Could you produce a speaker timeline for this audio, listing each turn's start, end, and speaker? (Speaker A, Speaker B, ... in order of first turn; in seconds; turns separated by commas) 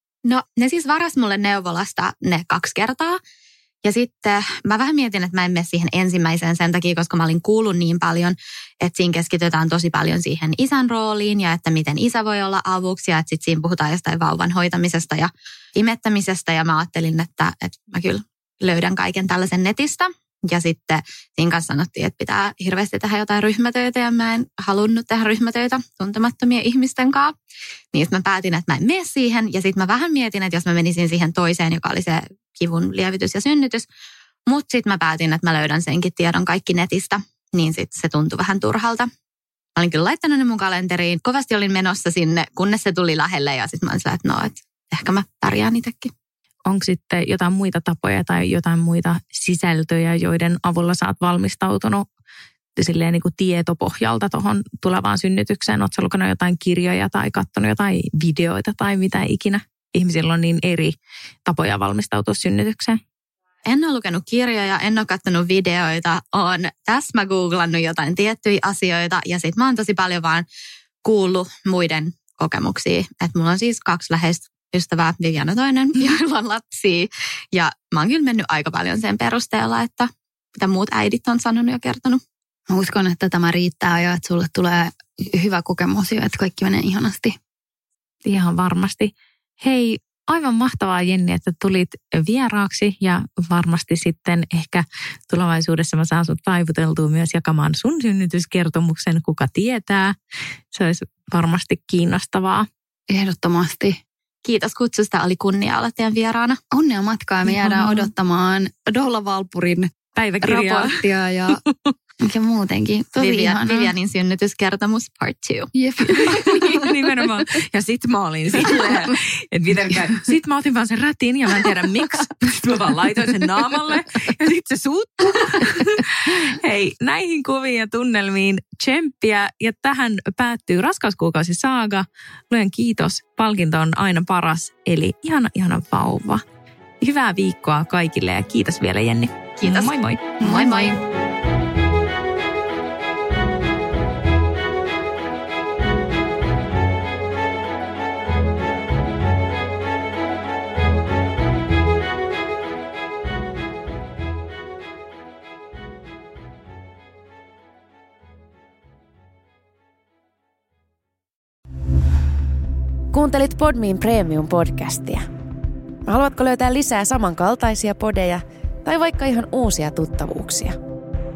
Speaker A: 0.2-3.2, Speaker A: 3.8-27.3, Speaker A: 27.9-33.9, Speaker A: 34.5-39.1, Speaker A: 39.8-46.1, Speaker B: 46.7-52.0, Speaker B: 52.8-60.9, Speaker B: 61.5-63.0, Speaker A: 63.6-70.5, Speaker A: 71.0-82.2, Speaker C: 82.7-87.3, Speaker B: 88.2-100.1, Speaker B: 100.7-102.7, Speaker C: 103.1-104.0, Speaker A: 104.4-106.6, Speaker C: 106.7-111.6, Speaker B: 107.4-108.1, Speaker B: 110.2-111.7, Speaker C: 112.2-113.9, Speaker A: 113.2-115.7, Speaker C: 115.7-116.7, Speaker B: 116.2-136.4, Speaker B: 137.0-140.4, Speaker A: 139.6-140.9, Speaker C: 140.4-140.9, Speaker D: 163.1-165.3, Speaker D: 166.1-170.8